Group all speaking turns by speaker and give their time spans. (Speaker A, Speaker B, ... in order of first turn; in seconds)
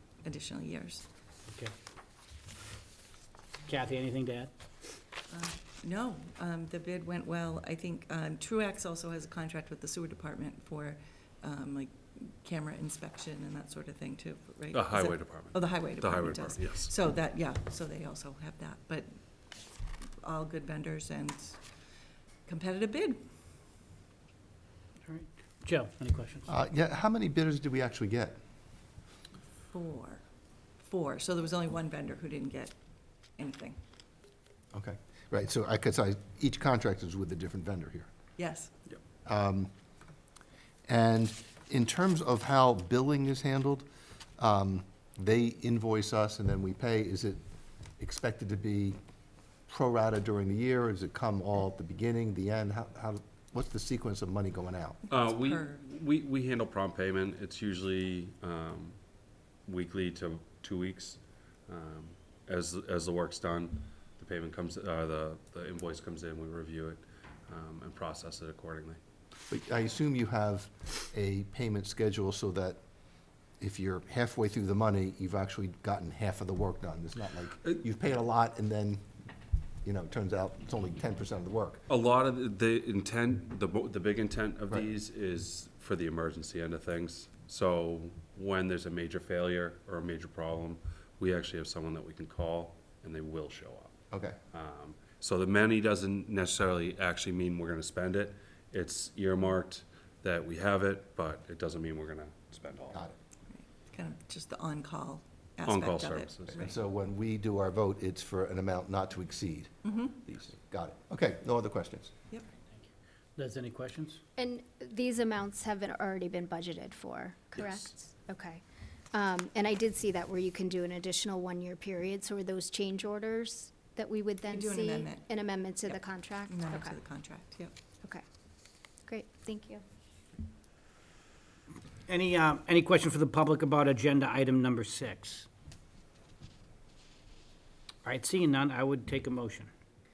Speaker A: 0.2-1.0, 5.3-19.1, 20.2-21.6, 22.4-23.2, 29.7-30.2, 30.8-32.8, 33.4-33.8, 38.4-38.7, 55.1-55.8, 103.5-106.8, 109.8-110.2, 124.5-125.3, 126.5-127.7
Speaker B: 3.7-4.5, 25.1-26.5, 113.3-114.2, 132.1-135.5, 138.0-139.7
Speaker C: 14.7-16.9, 55.1-59.0, 59.6-69.0, 81.9-93.9, 94.5-103.1, 105.7-106.7
Speaker D: 26.5-28.4, 34.7-38.1, 39.2-39.7, 40.9-43.9, 44.4-47.4, 48.0-49.0, 49.7-55.0, 69.5-72.8, 73.6-79.0, 79.8-81.8, 94.1-94.4, 106.5-112.1
Speaker E: 114.4-118.6, 119.1-127.0, 129.1-129.8